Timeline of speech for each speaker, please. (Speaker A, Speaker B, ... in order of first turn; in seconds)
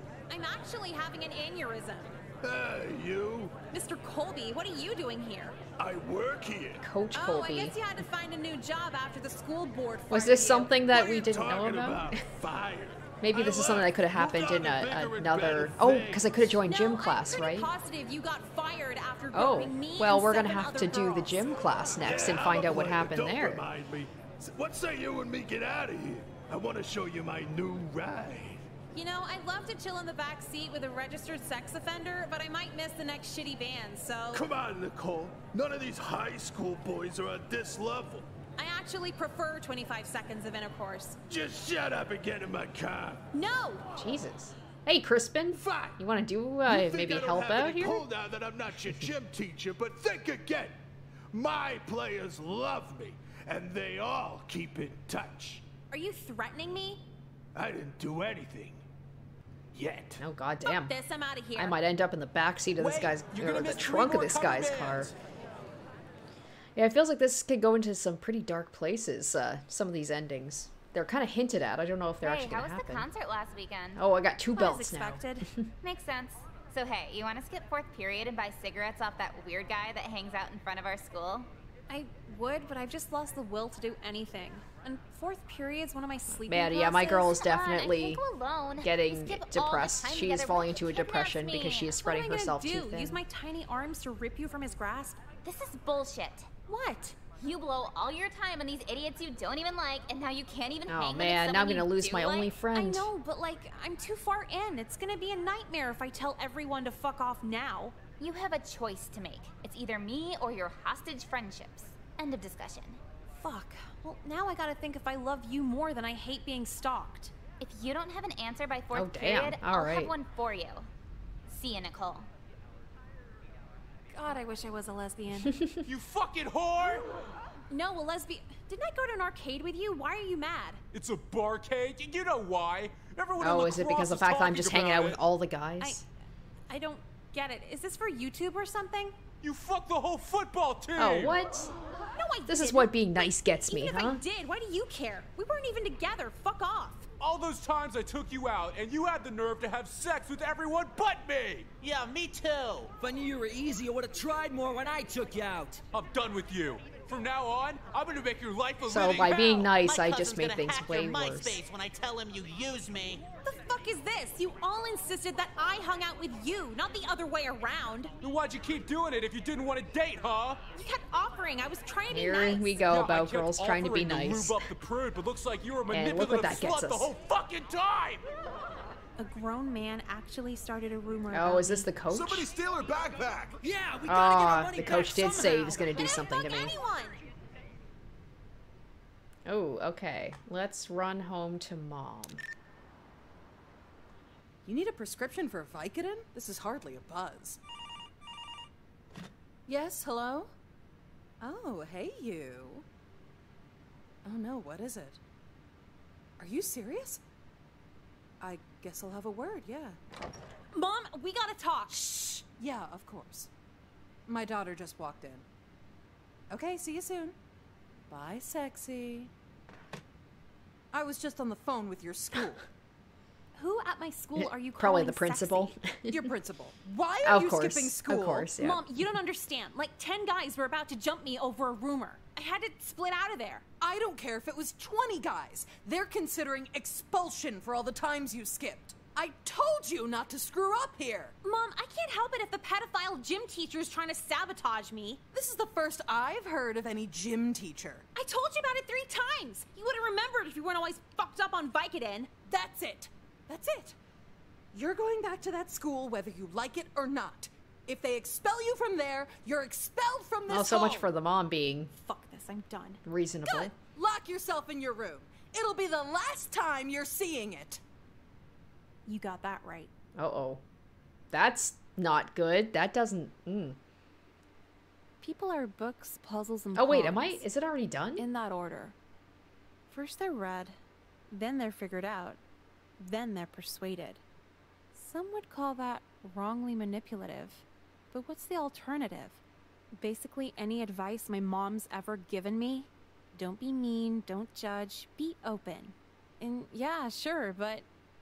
Speaker A: 0.3-2.1, 3.7-5.6, 7.1-10.8, 16.6-21.6, 28.9-34.4, 38.6-41.2, 43.3-43.8, 55.9-57.0, 60.6-61.8, 74.5-75.5, 81.9-87.1, 92.0-95.2, 96.7-97.2, 102.7-107.9, 113.3-117.3, 124.1-125.5, 127.7-130.8, 135.8-136.0, 136.7-139.2, 142.1-147.1, 163.4-168.1, 170.8-172.8, 179.2-181.9, 185.2-187.2, 210.7-212.4, 223.5-225.8, 228.6-233.6, 241.4-245.2, 248.1-252.5, 262.0-263.7, 269.1-269.9, 275.2-277.4, 278.1-278.9, 279.9-280.8, 281.3-282.4, 283.0-284.2, 284.9-289.4, 289.9-297.9
Speaker B: 2.4-3.5, 5.8-6.8, 10.8-16.6, 21.7-28.6, 34.3-38.3, 41.3-43.2, 45.5-46.0, 46.6-50.8, 51.3-55.6, 57.5-58.8, 59.7-60.2, 62.8-65.1, 151.4-151.6, 182.0-183.9
Speaker C: 6.8-7.8, 10.1-12.2, 13.2-17.7, 19.3-23.6, 44.0-48.0, 60.2-60.9, 61.5-65.1, 66.8-73.1, 73.9-75.7, 86.4-88.2, 88.8-93.2, 100.9-103.1, 118.9-120.1, 125.4-125.8, 133.4-136.0, 141.0-141.7, 142.5-144.2, 158.8-161.6, 172.1-174.6, 175.9-177.1, 181.3-182.5, 184.0-186.8, 189.4-192.4, 224.3-226.3, 227.2-228.8, 260.5-261.9, 263.0-263.7, 270.1-270.6, 271.3-273.8, 276.7-278.2
Speaker D: 72.2-74.0, 75.8-81.5, 86.9-91.9, 95.4-96.5, 97.4-102.5, 108.2-113.0, 117.6-120.9, 121.5-122.3
Speaker E: 125.8-127.2, 130.9-135.2, 139.4-141.4, 147.2-151.7, 155.9-159.7, 168.2-170.6, 172.9-178.2, 183.9-185.6
Speaker F: 151.8-152.9, 159.8-163.2
Speaker G: 153.0-155.8
Speaker H: 194.6-197.6, 199.7-200.5, 201.4-202.8, 204.2-205.2, 206.4-207.2, 208.4-210.0, 212.6-213.5, 214.3-215.4, 216.5-217.3, 218.1-219.3, 220.9-222.6, 226.1-228.5, 233.8-241.3, 245.3-248.1, 252.5-254.0, 254.7-261.1, 263.8-267.8